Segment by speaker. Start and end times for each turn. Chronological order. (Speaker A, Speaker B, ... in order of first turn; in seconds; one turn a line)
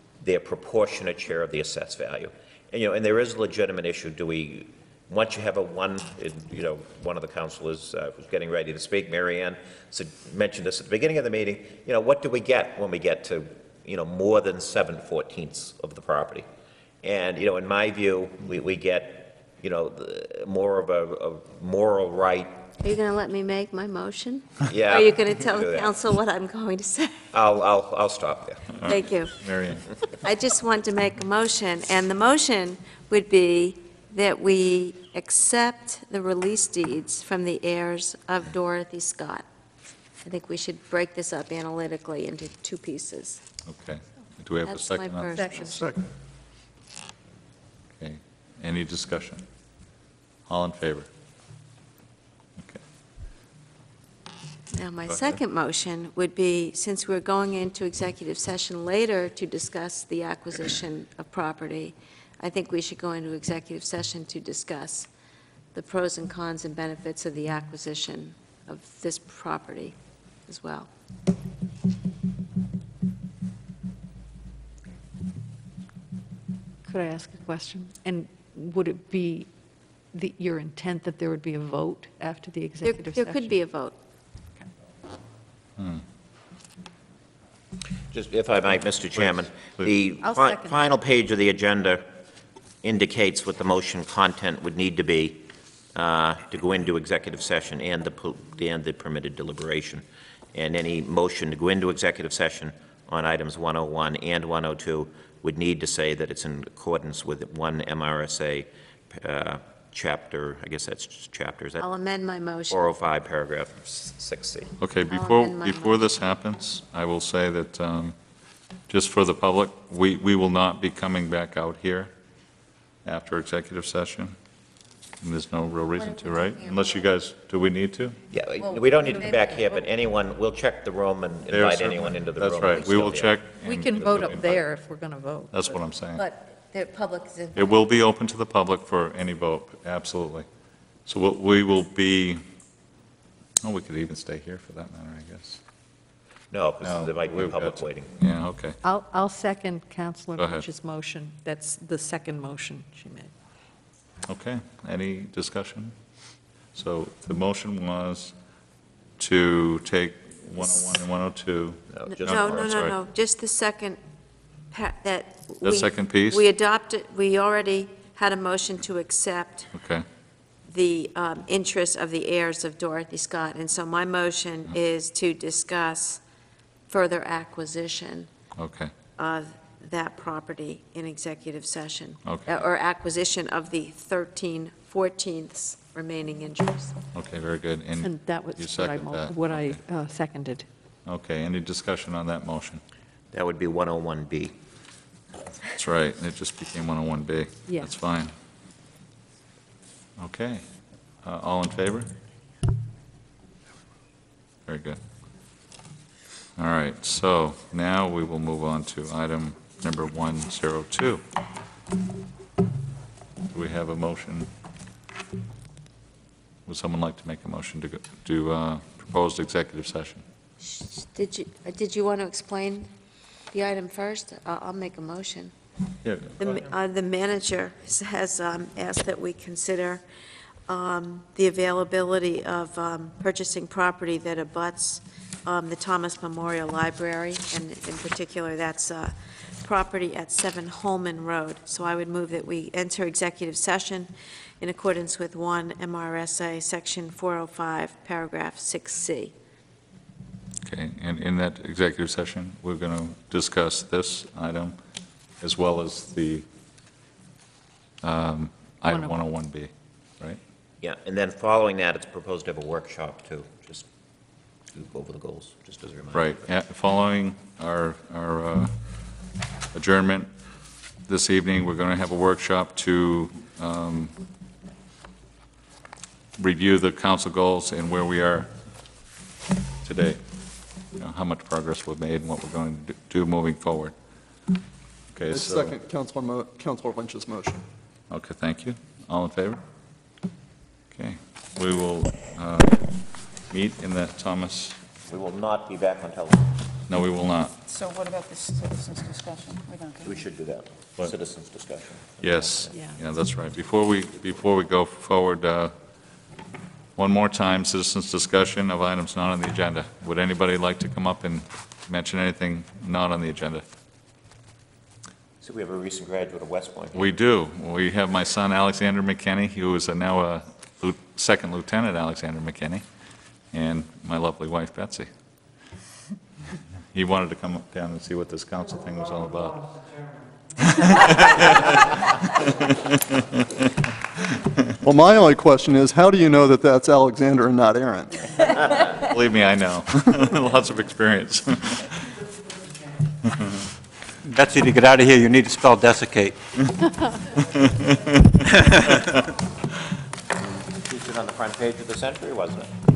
Speaker A: 0.2-16.5
Speaker A: 17.0-22.5
Speaker B: 22.8-27.3
Speaker A: 24.7-25.9
Speaker A: 27.3-28.9
Speaker C: 28.8-29.9
Speaker B: 28.9-29.4
Speaker B: 30.1-39.5
Speaker B: 40.2-43.4
Speaker C: 43.7-45.9
Speaker B: 44.6-45.9
Speaker D: 45.3-45.7
Speaker C: 48.0-49.5
Speaker C: 50.5-51.1
Speaker B: 54.7-65.1
Speaker C: 55.1-55.4
Speaker B: 65.7-70.0
Speaker B: 70.5-70.9
Speaker D: 76.9-79.5
Speaker D: 80.1-83.5
Speaker B: 82.8-84.0
Speaker C: 85.8-86.0
Speaker A: 88.1-92.1
Speaker D: 90.2-90.8
Speaker A: 92.8-111.8
Speaker B: 111.8-112.8
Speaker A: 112.7-114.8
Speaker C: 114.8-118.2
Speaker B: 115.1-116.2
Speaker C: 118.9-122.1
Speaker C: 123.0-124.4
Speaker C: 125.2-128.2
Speaker B: 126.0-127.1
Speaker A: 128.3-133.4
Speaker B: 128.6-129.9
Speaker C: 131.5-134.6
Speaker D: 133.6-135.8
Speaker C: 135.5-136.2
Speaker B: 136.2-137.8
Speaker C: 137.6-140.5
Speaker C: 141.1-142.4
Speaker C: 143.6-145.6
Speaker A: 146.5-148.1
Speaker C: 146.8-148.8
Speaker D: 148.8-153.3
Speaker C: 150.4-150.6
Speaker C: 154.3-156.0
Speaker C: 156.7-158.3
Speaker C: 159.2-162.9
Speaker A: 161.9-162.9
Speaker B: 162.1-164.0
Speaker B: 164.7-169.7
Speaker C: 165.6-166.4
Speaker C: 169.7-170.1
Speaker B: 170.7-176.2
Speaker B: 176.9-178.3
Speaker C: 178.6-178.9
Speaker B: 179.2-187.0
Speaker C: 182.2-182.5
Speaker C: 187.2-189.8
Speaker D: 188.0-190.7
Speaker C: 191.1-192.8
Speaker A: 193.3-194.6
Speaker C: 195.8-198.3
Speaker C: 200.2-200.7
Speaker C: 201.2-202.1
Speaker C: 204.7-205.0
Speaker C: 206.6-211.2
Speaker C: 213.5-214.5
Speaker C: 216.7-220.2
Speaker B: 220.6-222.9
Speaker B: 223.5-225.5
Speaker C: 226.0-226.4
Speaker B: 226.4-230.0
Speaker B: 230.7-249.3
Speaker C: 250.6-254.8
Speaker C: 255.4-256.5
Speaker C: 258.0-260.4
Speaker D: 258.9-259.2
Speaker A: 260.8-263.9
Speaker A: 264.7-266.4
Speaker C: 266.1-268.8
Speaker C: 269.7-270.3
Speaker C: 271.1-274.1
Speaker C: 276.4-278.6
Speaker C: 279.8-280.2
Speaker C: 280.9-283.9
Speaker C: 285.1-285.7
Speaker E: 285.3-287.6
Speaker C: 288.1-289.6
Speaker C: 290.9-294.8
Speaker A: 295.1-296.5
Speaker C: 296.9-297.6
Speaker F: 297.6-300.2
Speaker A: 300.0-302.7
Speaker C: 302.2-305.8
Speaker D: 302.7-303.0
Speaker C: 307.0-313.6
Speaker A: 315.4-317.1
Speaker C: 316.9-322.9
Speaker C: 323.5-325.1
Speaker C: 326.9-329.8
Speaker C: 330.6-333.4
Speaker E: 334.8-338.3
Speaker C: 339.0-342.1
Speaker C: 343.3-343.6
Speaker G: 344.2-346.4
Speaker C: 347.5-349.3
Speaker G: 348.5-348.9
Speaker A: 350.6-352.7